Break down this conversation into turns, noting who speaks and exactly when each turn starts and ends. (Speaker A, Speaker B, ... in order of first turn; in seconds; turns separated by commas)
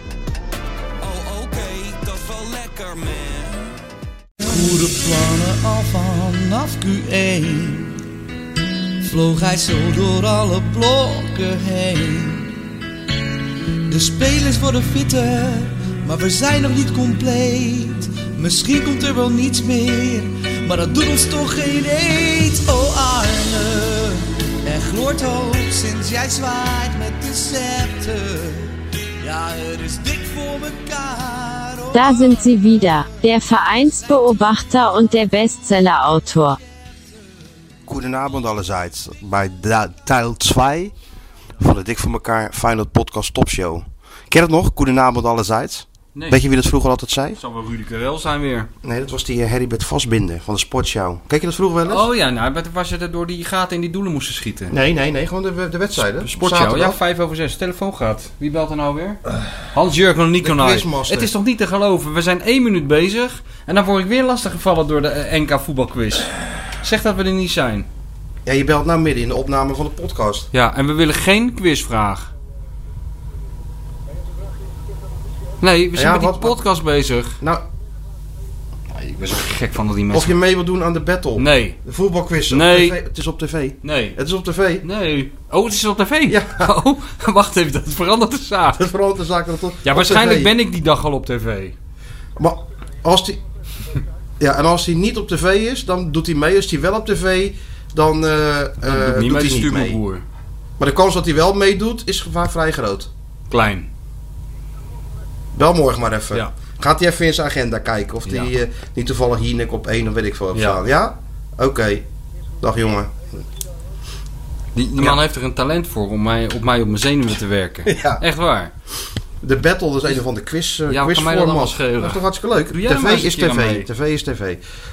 Speaker A: 1.0-3.8, Speaker B: 4.5-8.0, Speaker B: 9.0-12.6, Speaker B: 13.9-33.3, Speaker C: 31.9-36.6, Speaker D: 37.9-40.9, Speaker D: 41.6-47.4, Speaker E: 46.1-46.4, Speaker E: 47.4-48.7, Speaker D: 48.8-52.1, Speaker E: 51.9-54.8, Speaker D: 54.7-57.0, Speaker E: 56.1-67.9, Speaker D: 60.4-61.3, Speaker D: 68.5-70.5, Speaker E: 70.5-72.3, Speaker E: 75.6-77.4, Speaker D: 76.0-76.6, Speaker E: 78.9-80.4, Speaker D: 80.1-84.8, Speaker E: 81.4-81.8, Speaker E: 82.5-83.0, Speaker E: 83.8-84.2, Speaker E: 84.8-88.8, Speaker D: 86.3-86.8, Speaker D: 88.8-90.5, Speaker E: 89.8-91.8, Speaker D: 92.4-93.4, Speaker D: 94.4-100.0, Speaker E: 98.8-100.2, Speaker D: 100.8-103.1, Speaker E: 103.5-103.9, Speaker D: 105.5-112.1, Speaker E: 110.5-110.8, Speaker D: 112.6-113.4, Speaker E: 114.8-118.7, Speaker D: 117.9-118.2, Speaker D: 119.4-124.6, Speaker E: 120.9-123.9